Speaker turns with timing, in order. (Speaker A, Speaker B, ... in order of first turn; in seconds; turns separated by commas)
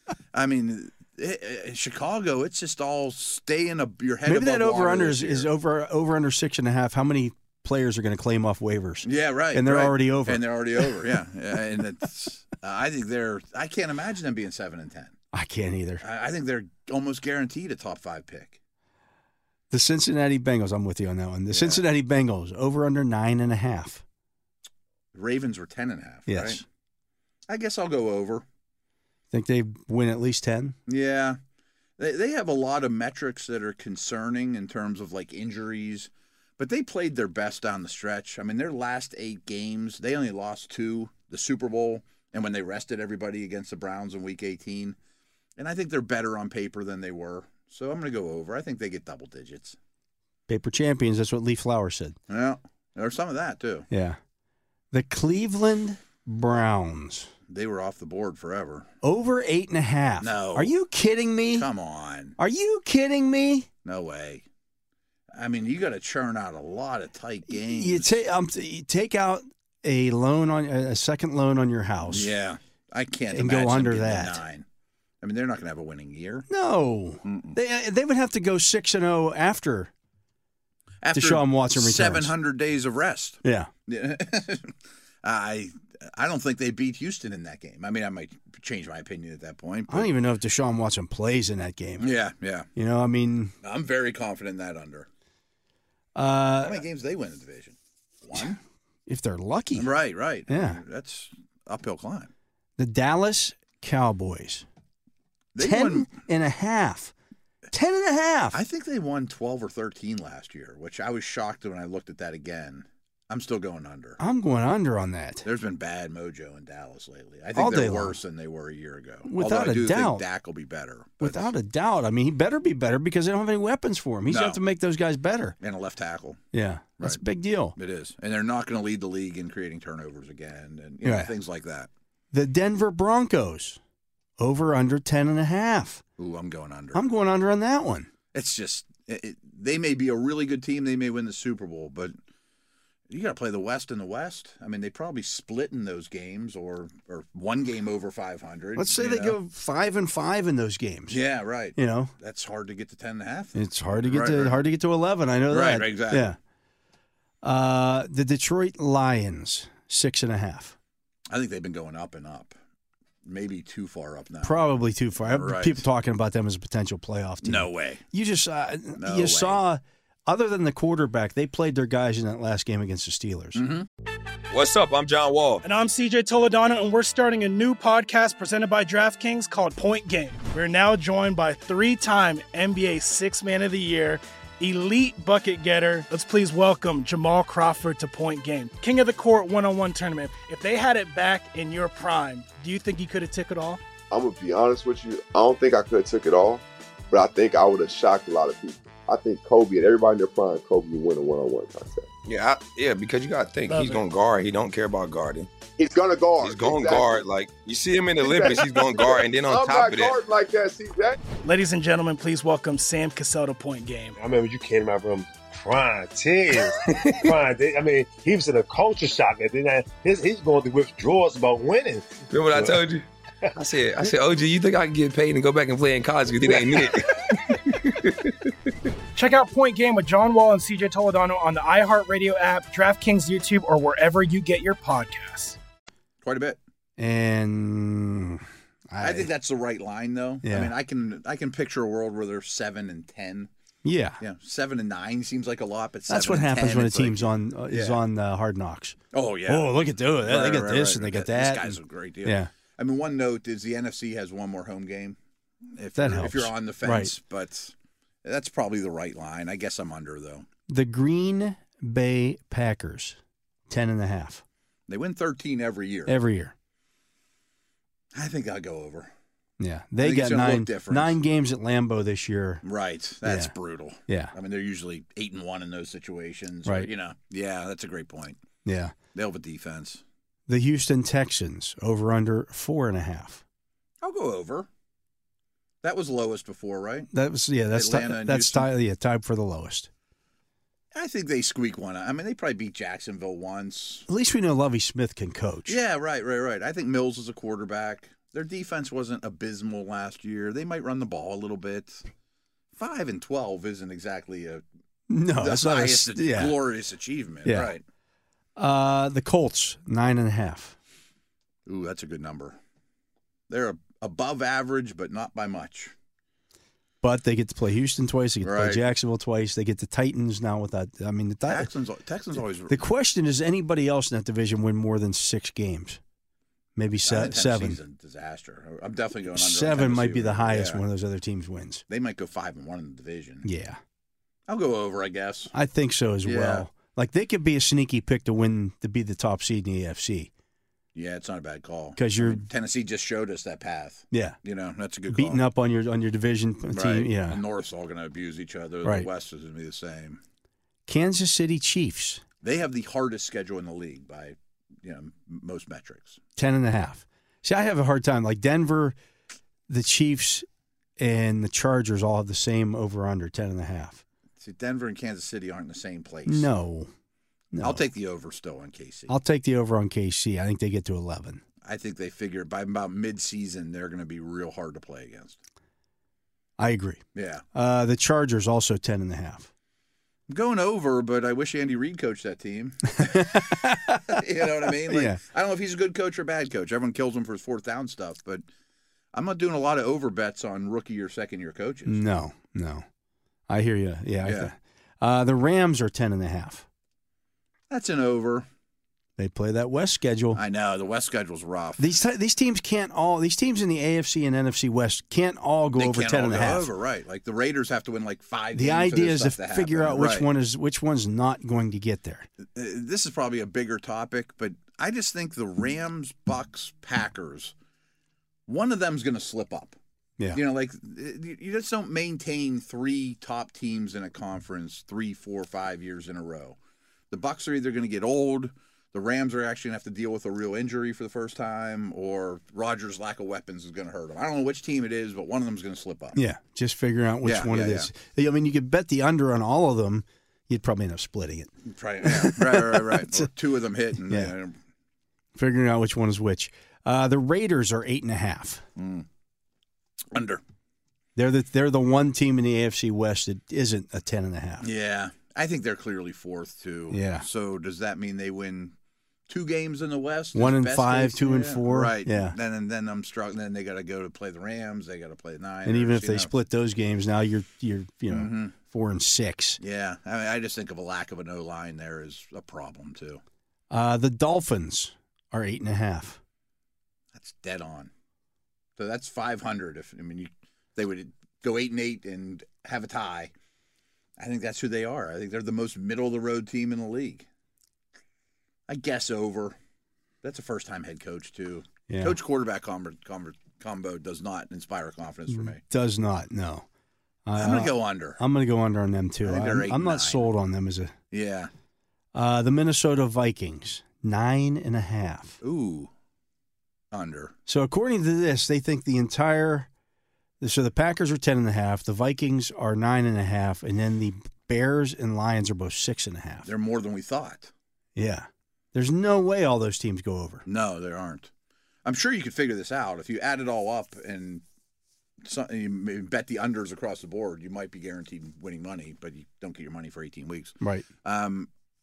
Speaker A: 0.3-5.5, Speaker B: 4.2-10.9, Speaker A: 9.0-15.2, Speaker B: 15.3-16.0, Speaker A: 16.0-18.6, Speaker B: 19.7-24.0, Speaker A: 21.5-21.8, Speaker A: 25.1-26.6, Speaker B: 26.3-26.6, Speaker A: 27.5-28.4, Speaker B: 29.3-30.8, Speaker A: 30.9-31.4, Speaker A: 32.0-45.0, Speaker A: 45.6-49.8, Speaker B: 50.5-52.1, Speaker A: 52.3-53.9, Speaker B: 53.9-54.2, Speaker B: 54.9-57.3, Speaker A: 57.5-58.9, Speaker B: 59.0-61.7, Speaker A: 60.2-60.7, Speaker A: 61.5-62.4, Speaker B: 62.4-63.7, Speaker A: 63.8-64.5, Speaker A: 65.3-68.2, Speaker B: 67.5-72.3, Speaker A: 72.1-74.7, Speaker B: 73.3-74.4, Speaker A: 75.2-76.5, Speaker B: 76.5-79.9, Speaker A: 77.2-77.6, Speaker A: 81.0-90.1, Speaker B: 81.1-82.3, Speaker B: 83.4-83.7, Speaker B: 89.9-92.1, Speaker A: 92.0-92.7, Speaker B: 92.8-93.5, Speaker A: 93.6-95.1, Speaker B: 96.1-96.8, Speaker A: 96.6-98.6, Speaker B: 99.1-99.9, Speaker A: 99.8-102.3, Speaker B: 100.5-100.8, Speaker B: 102.8-104.7, Speaker A: 105.5-106.1, Speaker B: 105.6-107.1, Speaker B: 107.7-108.6, Speaker A: 108.5-114.2, Speaker B: 114.2-115.4, Speaker A: 115.4-121.5, Speaker B: 117.5-118.2, Speaker B: 119.2-120.2, Speaker B: 121.2-125.5, Speaker A: 124.3-124.6, Speaker A: 125.6-126.4, Speaker B: 126.5-127.8, Speaker A: 127.8-131.9, Speaker B: 131.0-131.3, Speaker B: 132.3-133.8, Speaker B: 134.4-136.0, Speaker A: 136.2-137.0, Speaker B: 136.9-138.1, Speaker A: 138.3-142.2, Speaker A: 143.1-149.4, Speaker B: 148.8-151.2, Speaker A: 151.1-154.6, Speaker B: 151.8-152.1, Speaker B: 153.5-156.4, Speaker A: 155.5-156.3, Speaker B: 157.4-160.8, Speaker A: 161.3-162.5, Speaker A: 163.2-165.9, Speaker B: 164.4-173.6, Speaker A: 167.4-168.0, Speaker A: 169.0-169.6, Speaker A: 173.5-173.9, Speaker C: 174.5-175.6, Speaker D: 175.6-193.8, Speaker E: 194.1-202.1, Speaker C: 202.2-205.5, Speaker D: 203.7-204.0, Speaker E: 205.8-207.2, Speaker C: 206.4-210.2, Speaker E: 208.2-211.2, Speaker D: 211.4-214.2, Speaker F: 214.2-222.8, Speaker C: 216.9-217.2, Speaker C: 222.3-228.3, Speaker F: 226.5-226.9, Speaker D: 229.1-235.6, Speaker A: 236.2-236.6, Speaker B: 237.0-239.3, Speaker A: 239.0-243.5, Speaker B: 240.4-240.7, Speaker B: 243.8-244.2, Speaker A: 244.2-248.0, Speaker B: 246.1-252.5, Speaker A: 249.1-255.2, Speaker A: 255.7-260.5, Speaker B: 256.0-257.1, Speaker B: 260.7-263.2, Speaker B: 263.7-264.4, Speaker A: 264.9-266.1, Speaker B: 266.1-266.5, Speaker A: 268.1-269.1, Speaker B: 269.6-272.6, Speaker A: 270.0-271.2, Speaker A: 272.6-278.4, Speaker B: 273.2-273.5, Speaker B: 274.1-274.3, Speaker B: 278.6-278.9, Speaker A: 279.1-280.0, Speaker B: 280.5-283.4, Speaker A: 284.0-284.7, Speaker A: 285.8-287.1, Speaker B: 287.1-289.9, Speaker A: 287.7-288.7, Speaker A: 290.9-294.1, Speaker B: 294.1-295.8, Speaker A: 295.7-302.1, Speaker A: 302.7-304.6, Speaker B: 305.1-306.6, Speaker A: 305.4-307.8, Speaker B: 307.4-307.7, Speaker B: 308.6-310.8, Speaker A: 311.6-312.6, Speaker A: 313.5-315.9, Speaker B: 317.0-321.7, Speaker A: 318.4-318.9, Speaker A: 321.5-322.9, Speaker B: 322.7-326.0, Speaker B: 326.8-327.8, Speaker A: 327.0-330.8, Speaker B: 329.3-331.8, Speaker A: 331.9-333.5, Speaker B: 333.4-333.8, Speaker A: 334.5-335.5, Speaker B: 335.5-340.3, Speaker A: 336.2-336.7, Speaker A: 340.9-345.4, Speaker B: 342.0-342.5, Speaker B: 344.1-344.4, Speaker B: 345.1-347.4, Speaker A: 346.7-350.2, Speaker B: 350.9-352.2, Speaker A: 352.4-356.2, Speaker B: 356.4-359.0, Speaker B: 359.7-360.5, Speaker B: 361.0-364.0, Speaker A: 364.4-366.5, Speaker B: 366.2-366.9, Speaker B: 367.5-367.8, Speaker A: 367.6-369.1, Speaker B: 369.1-371.4, Speaker A: 371.6-375.4, Speaker B: 376.6-377.0, Speaker A: 377.1-377.5, Speaker B: 377.5-379.5, Speaker A: 380.3-388.4, Speaker B: 382.9-385.2, Speaker A: 389.1-392.0, Speaker B: 391.9-392.9, Speaker B: 393.5-396.6, Speaker A: 394.2-394.5, Speaker A: 397.7-398.5, Speaker B: 399.2-400.4, Speaker A: 400.3-402.0, Speaker B: 401.8-406.7, Speaker A: 405.8-410.3, Speaker B: 408.5-412.3, Speaker A: 412.5-417.5, Speaker A: 418.5-419.8, Speaker A: 420.3-426.6, Speaker A: 427.1-436.2, Speaker B: 436.1-441.5, Speaker A: 437.2-437.9, Speaker A: 441.6-444.6, Speaker B: 442.0-443.3, Speaker B: 444.1-444.3, Speaker B: 445.4-448.6, Speaker A: 448.8-449.1, Speaker A: 450.1-450.4, Speaker B: 451.1-454.7, Speaker A: 454.6-458.8, Speaker B: 456.9-457.2, Speaker A: 459.3-466.3, Speaker B: 460.4-462.4, Speaker B: 465.6-469.6, Speaker A: 468.1-468.5, Speaker A: 469.6-473.2, Speaker B: 473.7-476.2, Speaker A: 477.1-477.9, Speaker A: 478.8-483.3, Speaker A: 484.2-487.3, Speaker A: 488.7-489.6, Speaker A: 490.2-495.6, Speaker B: 491.9-492.2, Speaker B: 495.3-496.6, Speaker B: 497.2-500.9, Speaker A: 497.4-498.2, Speaker A: 499.2-500.3, Speaker A: 501.1-501.5, Speaker B: 502.1-505.4, Speaker A: 505.4-505.9, Speaker A: 506.9-507.4, Speaker B: 507.5-509.7, Speaker B: 510.4-516.5, Speaker A: 516.4-517.5, Speaker B: 518.0-520.4, Speaker A: 520.5-521.3, Speaker A: 521.9-524.4, Speaker A: 525.2-531.5, Speaker B: 530.6-530.9